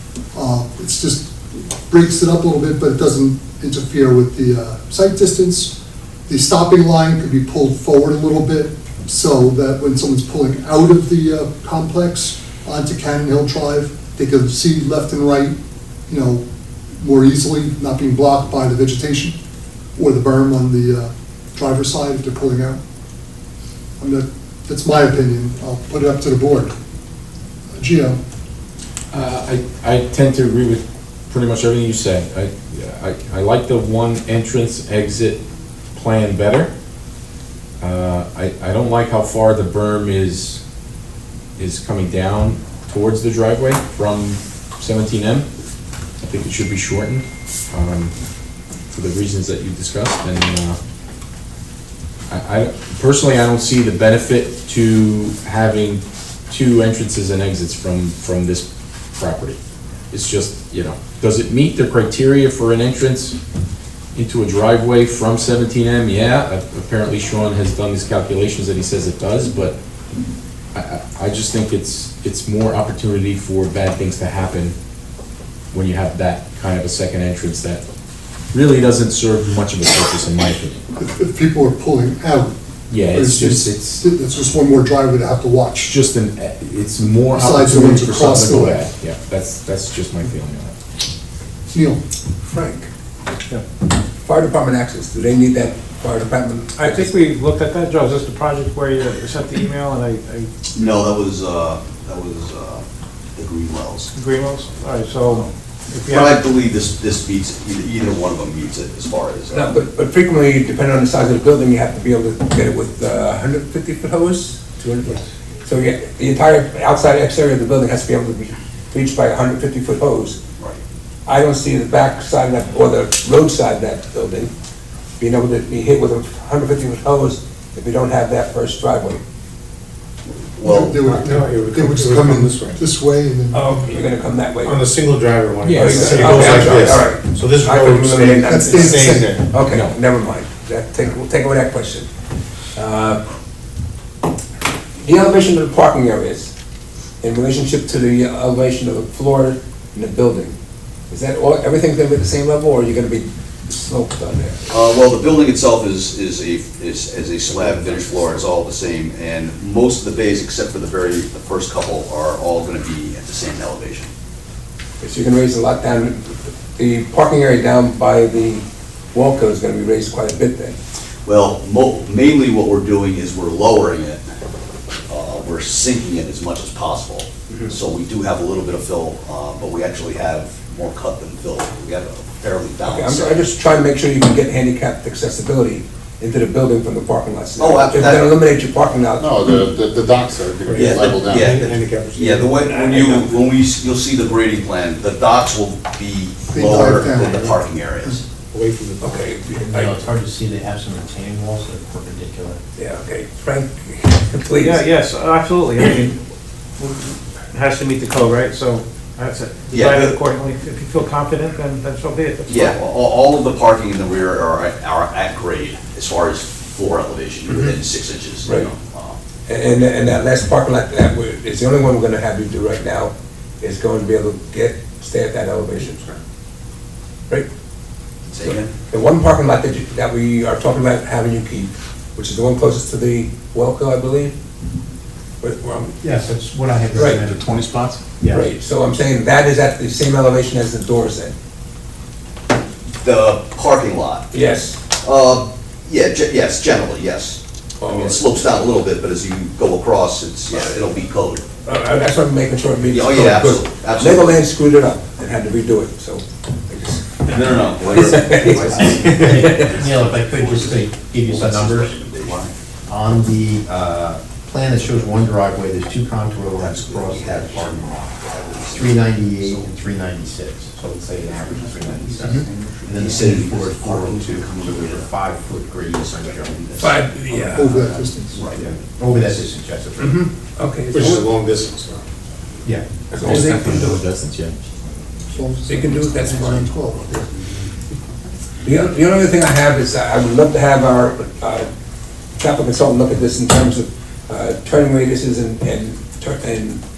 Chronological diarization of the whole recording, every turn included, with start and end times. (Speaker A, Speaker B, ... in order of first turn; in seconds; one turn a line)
Speaker A: 0.3-5.8
Speaker A: 6.3-15.6
Speaker A: 16.1-16.4
Speaker A: 17.0-19.4
Speaker A: 20.0-22.8
Speaker A: 24.0-26.7
Speaker A: 27.7-28.2
Speaker B: 29.1-35.4
Speaker B: 36.0-36.7
Speaker B: 37.8-40.6
Speaker B: 41.6-45.5
Speaker B: 46.2-48.1
Speaker B: 48.9-50.8
Speaker B: 52.3-59.6
Speaker B: 60.1-63.4
Speaker B: 64.2-69.8
Speaker B: 70.8-74.8
Speaker B: 75.7-77.8
Speaker B: 78.5-80.8
Speaker A: 81.0-85.9
Speaker B: 82.9-84.0
Speaker B: 85.8-90.8
Speaker A: 87.3-88.8
Speaker A: 91.7-92.0
Speaker C: 92.5-92.9
Speaker C: 94.2-97.1
Speaker D: 96.8-100.5
Speaker E: 100.7-102.8
Speaker E: 103.4-104.1
Speaker D: 104.2-106.4
Speaker E: 106.1-109.8
Speaker C: 109.5-120.4
Speaker C: 121.3-124.5
Speaker C: 125.2-129.2
Speaker E: 130.3-131.0
Speaker A: 130.6-133.9
Speaker F: 131.0-132.8
Speaker C: 133.5-134.9
Speaker F: 134.6-139.5
Speaker B: 135.6-136.8
Speaker C: 135.7-142.1
Speaker A: 138.5-139.4
Speaker B: 139.6-140.0
Speaker C: 142.8-143.2
Speaker C: 145.0-146.5
Speaker C: 147.2-150.6
Speaker C: 151.1-154.6
Speaker E: 154.7-164.1
Speaker C: 165.0-170.8
Speaker E: 171.2-174.2
Speaker E: 175.1-183.4
Speaker C: 182.8-189.3
Speaker E: 187.6-188.4
Speaker G: 189.2-191.5
Speaker F: 190.6-192.6
Speaker E: 190.7-198.2
Speaker C: 192.6-193.3
Speaker A: 196.5-198.2
Speaker F: 198.5-199.3
Speaker C: 199.0-200.0
Speaker H: 199.6-202.6
Speaker C: 202.8-204.8
Speaker D: 204.6-206.2
Speaker D: 206.8-212.8
Speaker E: 209.7-210.2
Speaker E: 212.5-219.2
Speaker C: 218.4-218.7
Speaker C: 219.5-226.2
Speaker E: 228.3-228.7
Speaker C: 228.4-234.4
Speaker C: 235.4-236.0
Speaker H: 236.0-238.5
Speaker F: 236.2-238.0
Speaker C: 236.9-237.2
Speaker C: 238.2-241.3
Speaker E: 243.0-244.3
Speaker C: 244.3-244.8
Speaker E: 245.0-251.4
Speaker C: 247.8-248.2
Speaker C: 251.7-257.4
Speaker E: 252.9-254.4
Speaker E: 257.2-262.6
Speaker C: 257.9-259.8
Speaker H: 258.8-262.0
Speaker H: 262.9-268.1
Speaker E: 266.6-269.9
Speaker H: 268.7-276.9
Speaker E: 271.5-275.1
Speaker E: 276.6-276.9
Speaker C: 276.8-277.9
Speaker A: 277.4-278.4
Speaker E: 278.2-278.7
Speaker H: 278.6-280.3
Speaker C: 280.6-281.3
Speaker F: 280.9-282.1
Speaker C: 283.1-284.0
Speaker B: 283.2-284.6
Speaker A: 285.3-287.2
Speaker C: 285.7-287.2
Speaker C: 288.6-291.7
Speaker C: 292.4-296.8